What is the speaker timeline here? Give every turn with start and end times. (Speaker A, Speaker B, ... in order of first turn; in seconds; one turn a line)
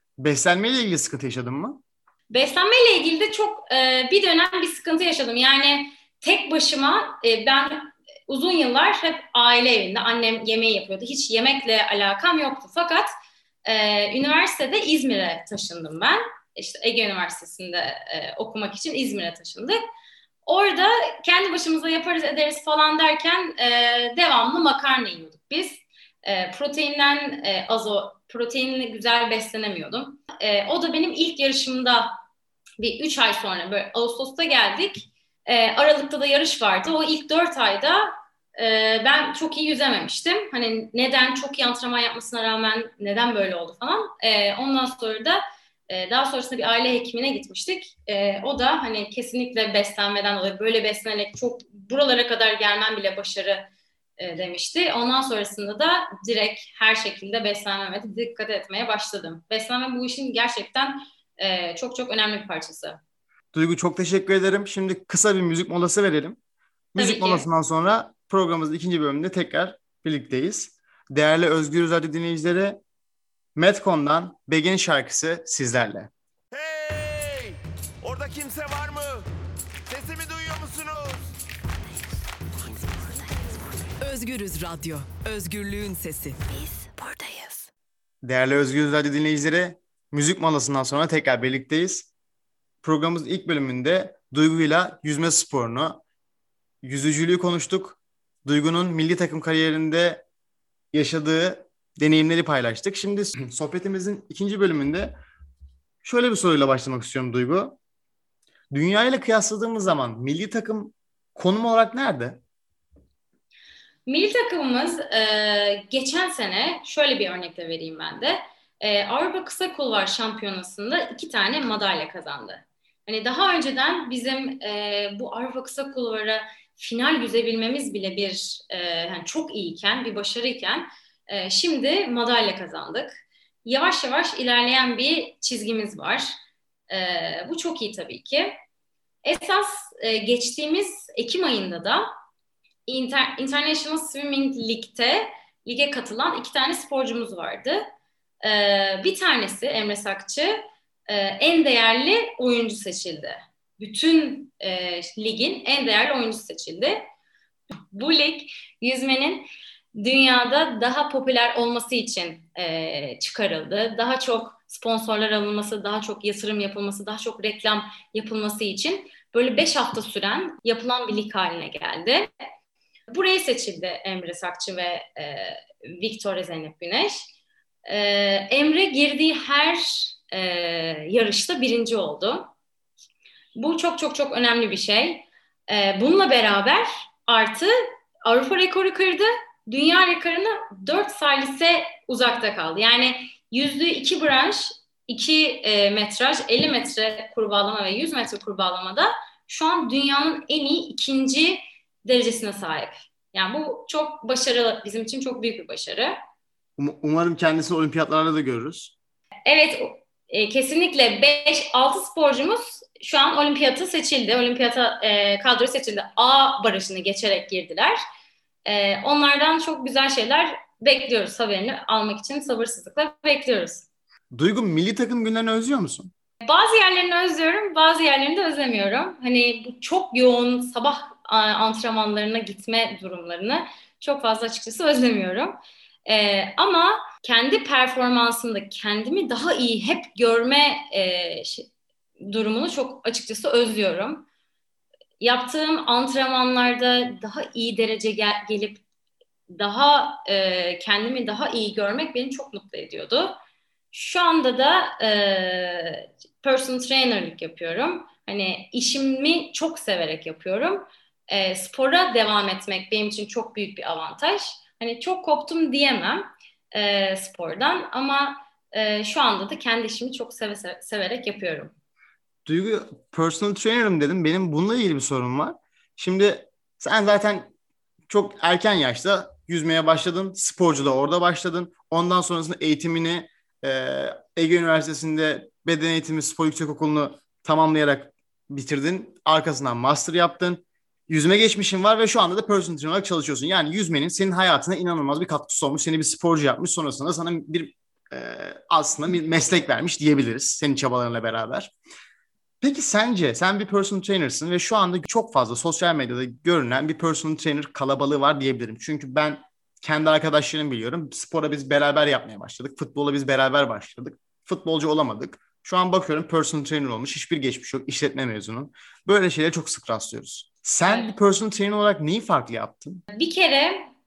Speaker A: 0.2-1.8
Speaker B: 2.3-13.1
Speaker B: 13.7-19.8
Speaker B: 20.4-32.1
Speaker B: 32.8-63.0
Speaker A: 63.5-66.4
Speaker A: 66.9-72.8
Speaker B: 67.0-67.5
Speaker A: 73.6-76.1
Speaker C: 76.5-79.3
Speaker C: 79.9-81.3
Speaker C: 82.7-83.0
Speaker D: 84.0-87.6
Speaker A: 88.2-92.1
Speaker A: 92.8-96.0
Speaker A: 96.8-100.2
Speaker A: 100.9-105.2
Speaker A: 106.0-107.8
Speaker A: 108.7-112.4
Speaker B: 114.1-136.4
Speaker B: 136.9-138.6
Speaker B: 139.2-142.1
Speaker B: 142.9-147.8
Speaker B: 148.4-157.0
Speaker B: 157.9-172.3
Speaker B: 173.1-177.3
Speaker B: 177.9-182.5
Speaker B: 183.6-187.7
Speaker B: 188.2-206.1
Speaker A: 206.8-208.9
Speaker B: 209.5-218.0
Speaker B: 218.7-223.9
Speaker A: 224.3-226.1
Speaker B: 226.4-241.7
Speaker B: 242.2-244.2
Speaker B: 245.2-248.8
Speaker B: 249.5-253.3
Speaker B: 253.9-271.7
Speaker A: 272.5-277.5
Speaker A: 278.1-301.7
Speaker A: 302.6-323.0
Speaker B: 323.1-323.8